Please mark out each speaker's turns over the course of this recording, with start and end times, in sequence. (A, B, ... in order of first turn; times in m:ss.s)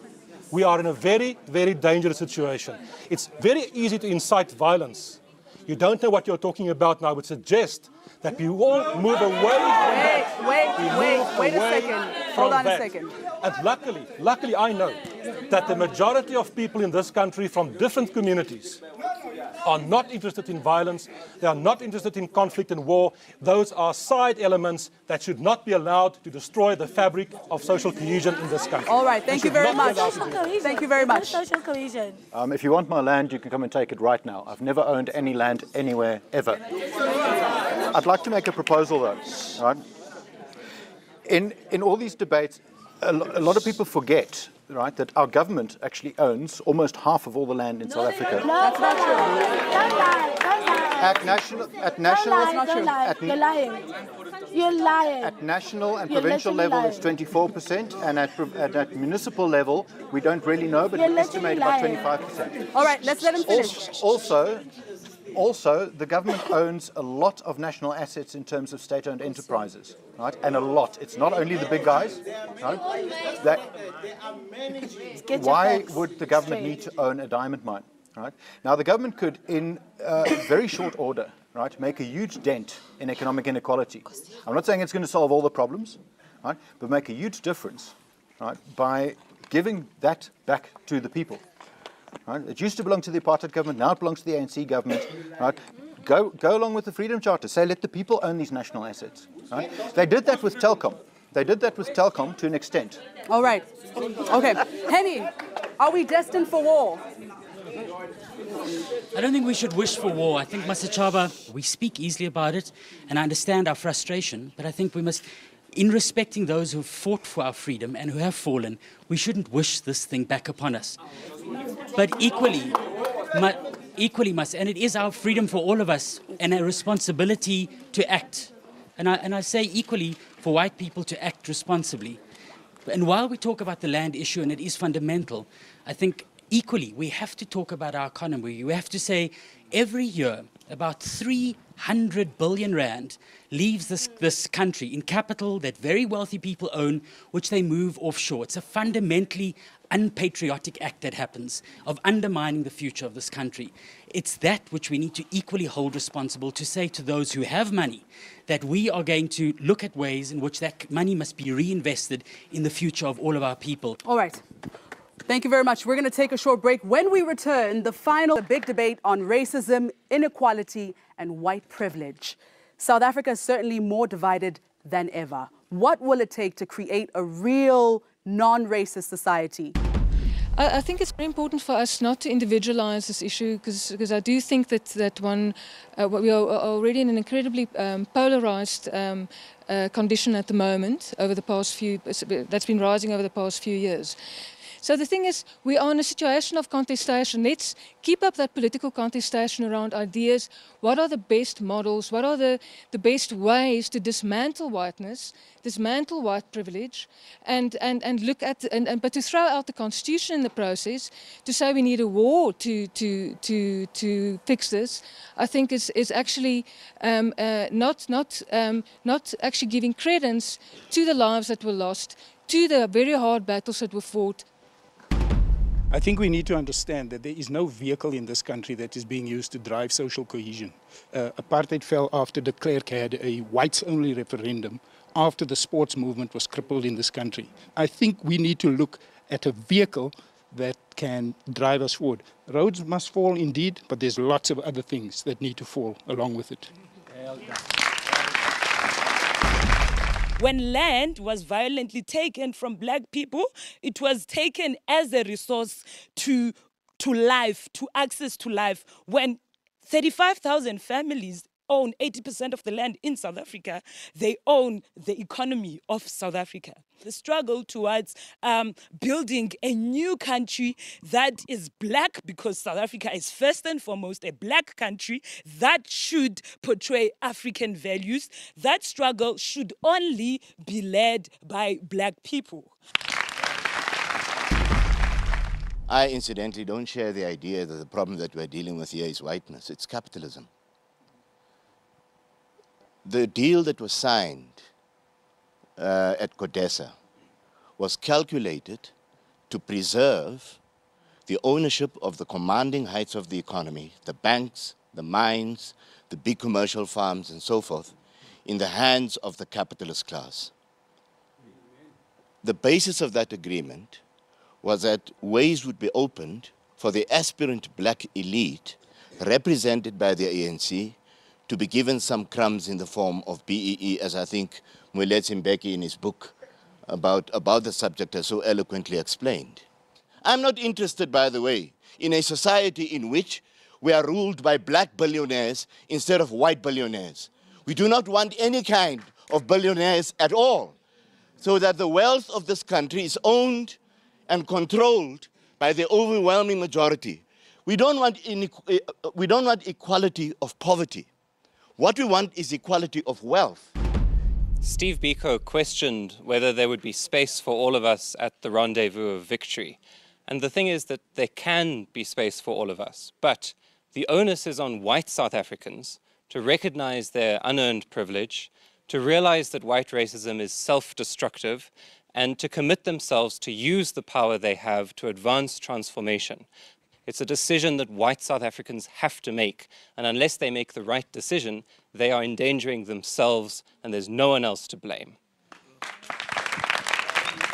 0:00.5-0:15.0 A
0:09.9-0:13.1 B
0:15.5-0:18.8 A
0:19.6-0:30.5 A
0:28.9-0:31.6 B
0:30.0-0:32.2 C
0:32.3-0:36.6 D
0:37.9-0:39.8 D
0:41.3-0:48.5 D
0:48.4-0:51.3 C
0:48.6-0:50.1 B
0:51.0-0:53.4 D
0:52.0-0:53.8 C
0:52.3-0:53.0 B
0:54.5-0:55.3 C
0:55.2-1:04.7 D
0:56.1-0:57.1 C
1:00.9-1:02.1 C
1:02.7-1:03.9 B
1:05.4-1:12.9 D
1:13.4-1:13.6 D
1:15.3-1:31.4 D
1:15.3-1:16.7 C
1:32.3-1:43.0 D
1:43.3-1:43.7 B
1:44.3-1:47.0 B
1:49.1-2:01.0 E
2:02.0-2:02.8 E
2:03.3-2:12.2 E
2:12.9-2:44.0 E
2:44.0-2:44.4 B
2:45.3-2:59.8 B
3:00.6-3:14.2 F
3:14.8-3:44.5 F
3:45.9-4:06.7 G
4:10.4-4:42.7 H
4:45.9-4:50.5 I
4:53.0-4:54.7 I
4:55.8-4:57.0 I
4:57.8-4:58.9 I
4:59.5-5:00.6 I
5:01.3-5:08.0 I
5:08.5-5:10.5 I
5:12.4-5:14.0 I
5:14.6-5:21.0 I
5:21.5-5:26.3 I
5:26.9-5:29.7 I
5:30.2-5:40.8 I
5:41.4-5:43.8 I
5:44.3-5:51.1 I
5:51.8-5:53.7 I
5:54.6-6:16.5 J
6:17.1-6:25.2 J